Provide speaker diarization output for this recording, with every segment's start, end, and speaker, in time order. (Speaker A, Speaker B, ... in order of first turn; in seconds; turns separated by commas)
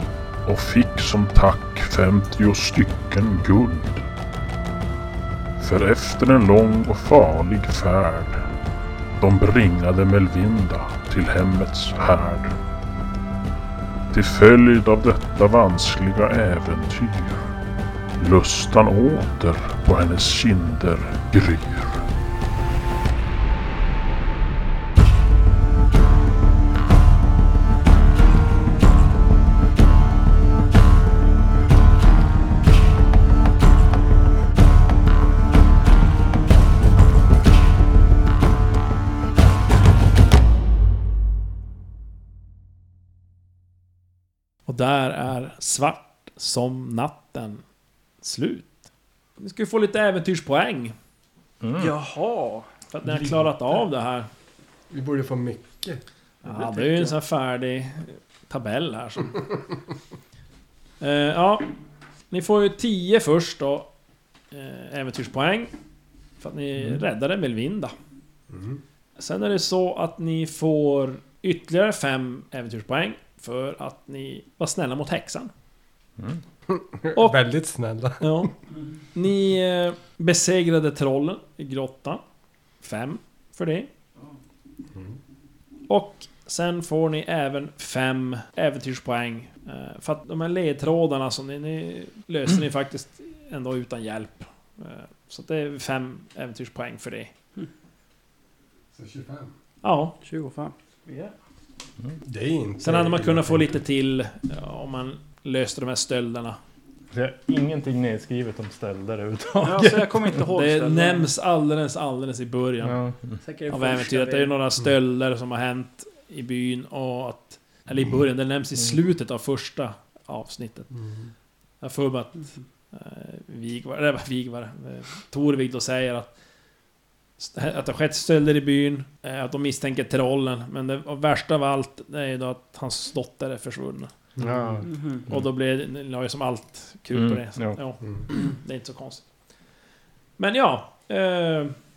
Speaker A: 0.4-4.0, Speaker A: 5.6-8.4, Speaker A: 9.2-12.5, Speaker A: 14.1-17.5, Speaker A: 18.2-22.0, Speaker B: 44.7-47.6, Speaker B: 48.2-48.7, Speaker B: 49.4-50.9, Speaker C: 51.6-51.9, Speaker D: 51.8-52.7, Speaker B: 52.9-54.3, Speaker E: 54.9-56.0, Speaker D: 56.4-57.1, Speaker B: 56.4-59.4, Speaker B: 61.0-61.7, Speaker B: 62.3-63.9, Speaker B: 64.5-65.7, Speaker B: 66.4-67.9, Speaker E: 68.5-68.8, Speaker B: 69.2-75.5, Speaker E: 76.7-78.4, Speaker B: 78.2-78.5, Speaker B: 79.1-82.2, Speaker B: 82.8-83.9, Speaker B: 85.9-97.3, Speaker E: 98.9-99.5, Speaker B: 99.8-100.2, Speaker D: 100.2-101.3, Speaker E: 102.2-103.7, Speaker B: 102.8-106.6, Speaker C: 107.1-110.4, Speaker D: 109.6-111.3, Speaker B: 110.5-113.0, Speaker C: 112.8-113.4, Speaker D: 113.4-114.5, Speaker B: 113.7-120.9, Speaker E: 121.0-121.3, Speaker B: 121.8-126.3, Speaker B: 127.4-134.1, Speaker E: 134.3-134.8, Speaker C: 134.4-135.5, Speaker D: 134.8-135.2, Speaker B: 135.3-139.2, Speaker C: 137.1-137.8, Speaker B: 140.4-141.7